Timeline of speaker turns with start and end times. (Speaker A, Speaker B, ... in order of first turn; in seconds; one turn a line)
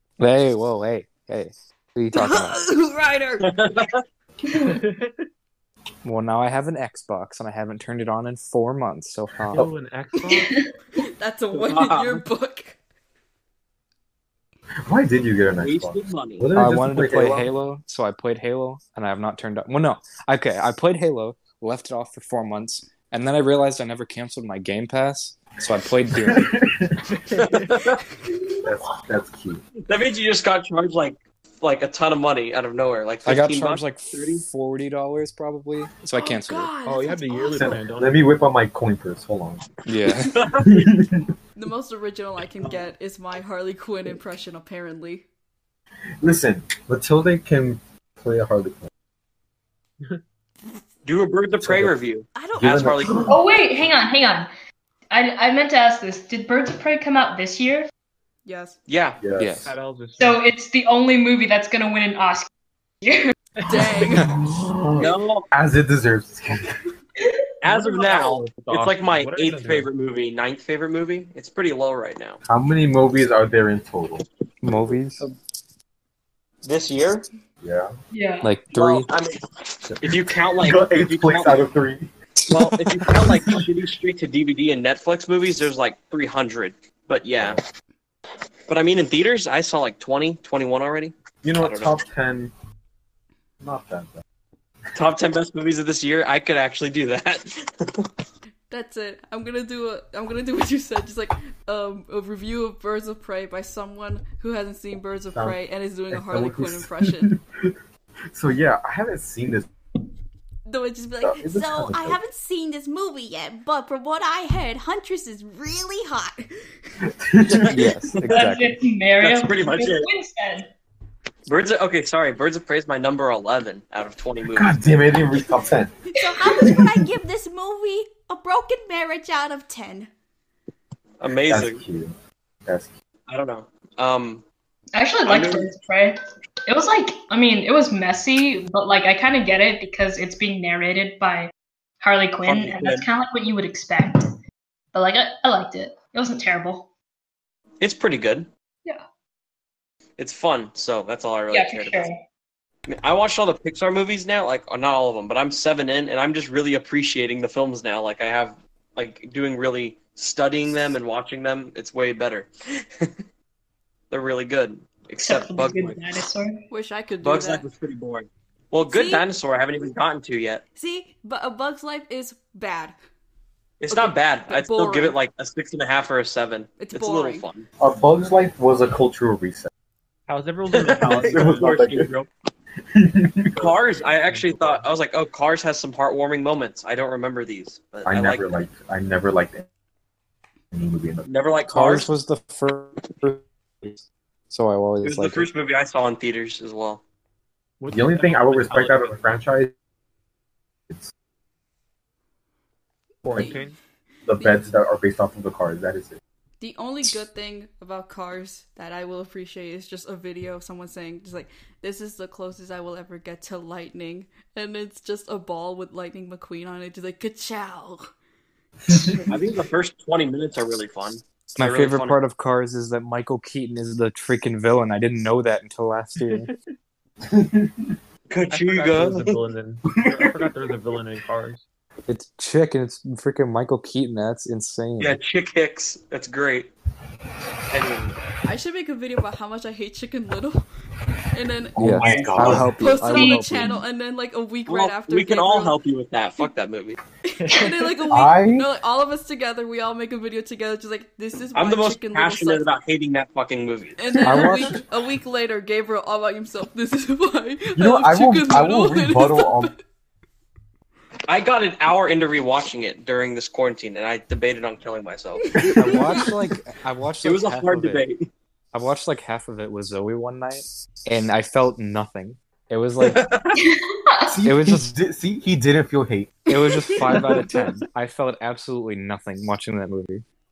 Speaker A: 0.2-2.6
Speaker B: 2.1-3.5
Speaker C: 3.5-4.0
Speaker D: 4.5-4.8
Speaker E: 4.6-5.2
Speaker A: 6.0-9.7
Speaker E: 9.5-10.6
Speaker B: 11.0-12.8
Speaker C: 11.5-12.2
Speaker F: 14.8-17.5
Speaker C: 15.6-16.5
Speaker A: 16.6-26.6
Speaker F: 26.1-27.0
Speaker E: 27.3-27.6
Speaker C: 27.4-28.0
Speaker F: 28.6-29.6
Speaker C: 29.9-34.4
Speaker A: 33.3-36.8
Speaker B: 36.2-37.8
Speaker E: 36.8-38.3
Speaker F: 37.6-39.7
Speaker A: 39.9-40.5
Speaker C: 40.2-40.9
Speaker F: 40.5-41.3
Speaker B: 41.6-45.2
Speaker F: 46.2-48.9
Speaker C: 51.0-53.3
Speaker F: 51.6-52.0
Speaker B: 52.4-52.9
Speaker F: 52.6-53.4
Speaker D: 53.3-54.5
Speaker D: 55.1-57.9
Speaker B: 58.5-58.8
Speaker C: 58.9-59.2
Speaker F: 59.2-59.6
Speaker A: 59.4-59.7
Speaker E: 59.6-60.4
Speaker D: 60.2-62.5
Speaker D: 63.0-64.2
Speaker B: 63.7-64.3
Speaker F: 64.2-66.8
Speaker C: 65.0-65.5
Speaker C: 67.6-72.4
Speaker E: 67.7-69.9
Speaker F: 72.4-74.3
Speaker A: 74.6-75.2
Speaker C: 76.6-77.3
Speaker F: 77.6-77.9
Speaker D: 78.1-78.5
Speaker A: 78.4-79.1
Speaker C: 78.7-79.4
Speaker F: 79.9-82.1
Speaker C: 80.0-81.6
Speaker C: 82.5-87.6
Speaker F: 83.2-83.6
Speaker C: 88.7-92.0
Speaker F: 91.4-92.5
Speaker F: 93.6-94.2
Speaker C: 94.9-98.1
Speaker B: 98.7-107.3
Speaker F: 105.3-105.6
Speaker F: 106.1-107.8
Speaker F: 108.3-109.7
Speaker B: 110.7-116.5
Speaker F: 111.2-112.2
Speaker F: 117.0-118.1
Speaker C: 117.5-118.4
Speaker A: 117.7-118.8
Speaker D: 118.3-120.7
Speaker C: 119.2-120.1
Speaker C: 121.5-124.8
Speaker F: 124.5-125.9
Speaker B: 126.1-130.1
Speaker F: 126.5-127.0
Speaker C: 131.2-131.8
Speaker F: 131.5-132.2
Speaker F: 132.7-132.9
Speaker C: 133.3-134.4
Speaker D: 134.9-144.3
Speaker C: 135.3-135.7
Speaker C: 142.4-143.1
Speaker D: 144.9-146.9
Speaker C: 147.8-148.5
Speaker C: 150.2-152.1
Speaker D: 151.5-152.2
Speaker C: 152.9-163.1
Speaker C: 164.1-166.0
Speaker D: 165.2-166.6
Speaker B: 166.7-167.7
Speaker C: 167.2-170.6
Speaker B: 168.9-169.3
Speaker B: 170.8-172.9
Speaker C: 173.8-177.7
Speaker B: 173.9-175.2
Speaker B: 176.8-177.5
Speaker F: 177.8-179.7
Speaker E: 180.3-182.1
Speaker C: 180.7-182.3
Speaker F: 181.3-182.1
Speaker F: 182.9-183.8
Speaker C: 183.6-188.5
Speaker E: 184.0-184.9
Speaker F: 188.1-189.7
Speaker F: 190.7-191.3
Speaker C: 191.2-192.1
Speaker A: 191.7-195.5
Speaker C: 195.0-197.0
Speaker E: 197.8-199.2
Speaker F: 197.9-199.7
Speaker E: 203.2-203.8
Speaker B: 203.3-203.7
Speaker F: 204.3-206.2
Speaker B: 204.4-204.6
Speaker B: 206.6-218.1
Speaker F: 218.9-219.2
Speaker C: 219.3-222.2
Speaker A: 221.6-226.5
Speaker E: 226.2-226.5
Speaker F: 227.3-227.9
Speaker C: 228.3-229.4
Speaker E: 228.5-231.6
Speaker F: 230.0-230.7
Speaker A: 232.1-235.2
Speaker C: 235.0-236.7
Speaker C: 237.7-238.2
Speaker B: 238.4-240.6
Speaker B: 241.3-245.8
Speaker F: 241.8-242.7
Speaker A: 241.8-243.8
Speaker C: 242.3-242.7
Speaker D: 243.0-243.7
Speaker C: 244.7-247.0
Speaker B: 247.3-252.7
Speaker E: 247.4-247.9
Speaker F: 248.1-248.7
Speaker C: 251.6-254.3
Speaker B: 254.0-259.8
Speaker A: 254.2-254.8
Speaker F: 257.8-259.7
Speaker C: 261.3-265.6
Speaker B: 265.5-266.2
Speaker F: 265.6-266.1
Speaker A: 265.8-268.0
Speaker C: 267.2-268.3
Speaker A: 268.7-273.3
Speaker C: 273.0-273.6
Speaker D: 273.6-274.4
Speaker F: 274.3-276.4
Speaker A: 274.4-274.9
Speaker A: 276.5-280.2